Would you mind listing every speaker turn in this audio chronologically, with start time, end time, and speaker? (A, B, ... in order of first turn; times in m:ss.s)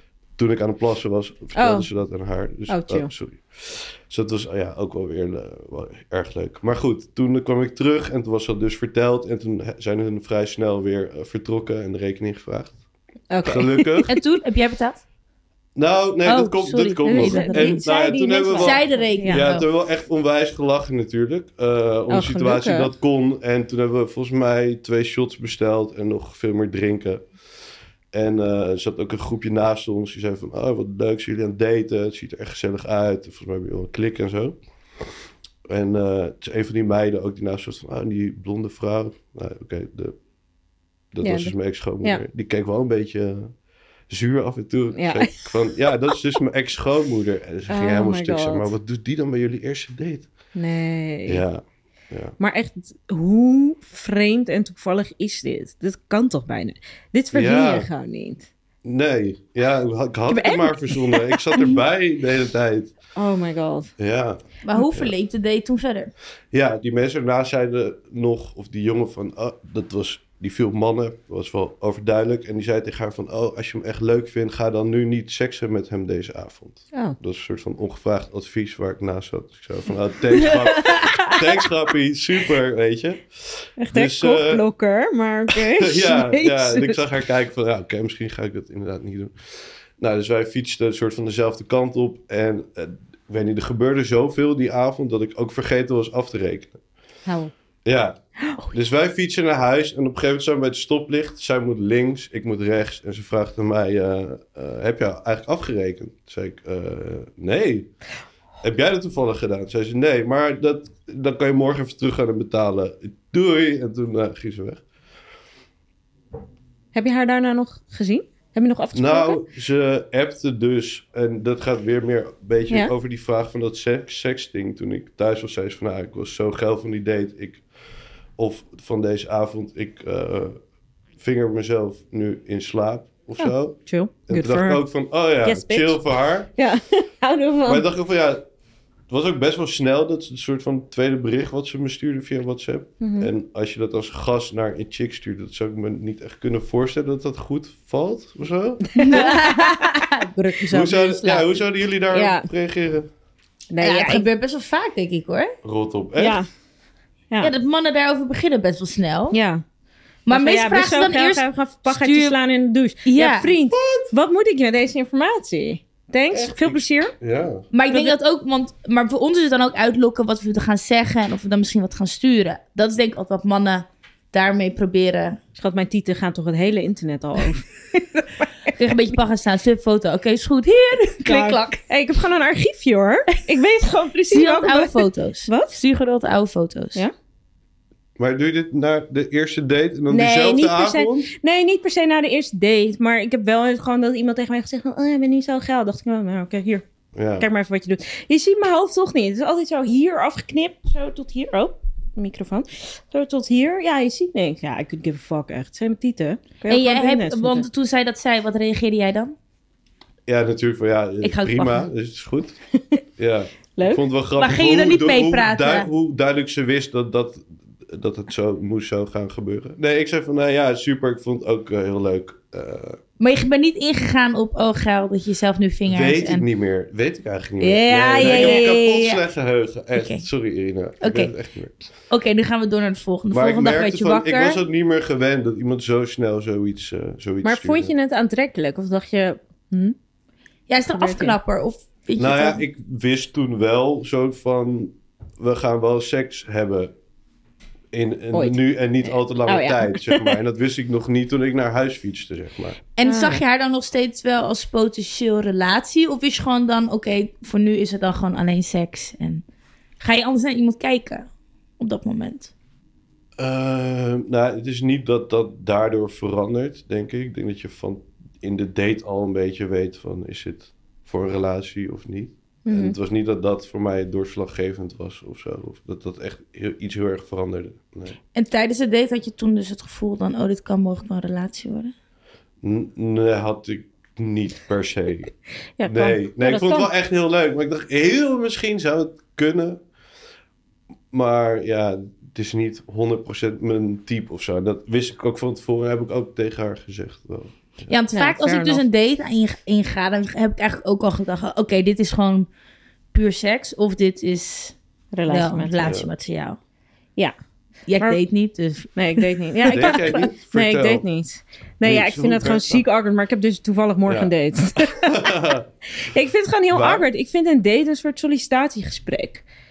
0:00.4-0:12.8 A
0:01.6-0:01.9 B
0:02.7-0:03.1 B
0:13.3-0:14.1 B
0:13.4-0:14.1 A
0:14.1-0:15.0 C
0:15.8-0:27.3 A
0:16.2-0:17.8 C
0:17.0-0:19.5 B
0:18.6-0:19.7 C
0:22.1-0:22.9 B
0:28.1-0:40.2 A
0:41.1-0:43.6 A
0:41.2-0:42.2 B
0:44.1-0:50.3 A
0:45.0-0:45.5 B
0:47.7-0:48.7 B
0:50.5-0:51.4 B
0:51.3-0:52.4 A
0:52.4-0:58.5 B
0:57.3-0:57.9 A
0:58.8-1:02.9 A
1:00.3-1:01.5 B
1:03.2-1:03.9 B
1:04.0-1:05.1 A
1:04.6-1:06.1 C
1:06.5-1:24.6 A
1:20.8-1:21.3 C
1:23.8-1:27.0 B
1:25.8-1:36.8 A
1:37.3-1:37.5 B
1:37.8-1:38.2 A
1:38.7-1:47.9 A
1:48.6-1:54.8 A
1:56.9-1:59.4 B
1:58.9-2:07.6 A
2:08.4-2:10.6 A
2:11.2-2:16.5 A
2:13.4-2:14.9 B
2:15.4-2:16.0 B
2:16.6-2:17.8 B
2:17.6-2:18.4 A
2:19.1-2:29.2 A
2:23.0-2:23.3 B
2:28.9-2:29.9 B
2:29.0-2:31.5 C
2:30.7-2:33.1 A
2:32.1-2:32.5 B
2:33.7-2:34.3 B
2:33.8-2:35.6 C
2:35.6-2:36.4 A
2:36.2-2:36.5 B
2:37.4-2:39.4 C
2:39.3-2:39.6 B
2:40.3-2:42.4 C
2:40.3-2:47.1 B
2:43.0-2:43.5 C
2:43.7-2:44.1 A
2:46.3-2:47.7 A
2:47.7-2:55.4 C
2:47.9-2:48.1 B
2:55.6-2:58.3 B
2:58.8-3:01.8 C
3:01.2-3:05.8 B
3:04.3-3:07.0 C
3:08.2-3:11.3 A
3:10.1-3:16.8 B
3:17.2-3:17.5 A
3:17.4-3:27.7 B
3:26.7-3:29.4 C
3:30.3-3:32.6 A
3:31.2-3:31.9 C
3:33.2-3:43.0 A
3:33.8-3:34.0 B
3:34.4-3:35.9 C
3:43.2-3:46.5 C
3:45.9-3:51.7 A
3:47.6-3:49.2 C
3:48.1-3:48.8 B
3:50.0-3:50.2 C
3:51.0-3:51.3 C
3:52.1-3:54.6 C
3:53.3-3:57.9 A
3:57.4-4:00.0 B
4:00.7-4:02.6 C
4:01.0-4:01.4 B
4:02.2-4:06.9 A
4:07.9-4:12.8 A
4:08.3-4:08.6 B
4:09.5-4:10.4 B
4:13.0-4:19.4 C
4:13.0-4:13.4 B
4:20.0-4:21.3 C
4:21.8-4:22.5 C
4:23.4-4:38.2 A
4:32.7-4:33.0 B
4:38.4-4:41.9 C
4:42.6-4:49.8 A
4:45.8-4:46.9 B
4:51.1-4:57.9 A
4:57.9-5:02.5 C
4:58.1-4:58.8 B
5:03.1-5:04.8 C
5:05.1-5:05.9 B
5:05.3-5:06.6 C
5:05.8-5:06.1 A
5:07.9-5:09.3 C
5:09.0-5:15.2 B
5:09.7-5:11.0 A
5:09.8-5:10.1 C
5:11.8-5:12.8 A
5:14.1-5:14.3 A
5:14.8-5:15.7 A
5:16.0-5:19.4 B
5:16.7-5:17.1 A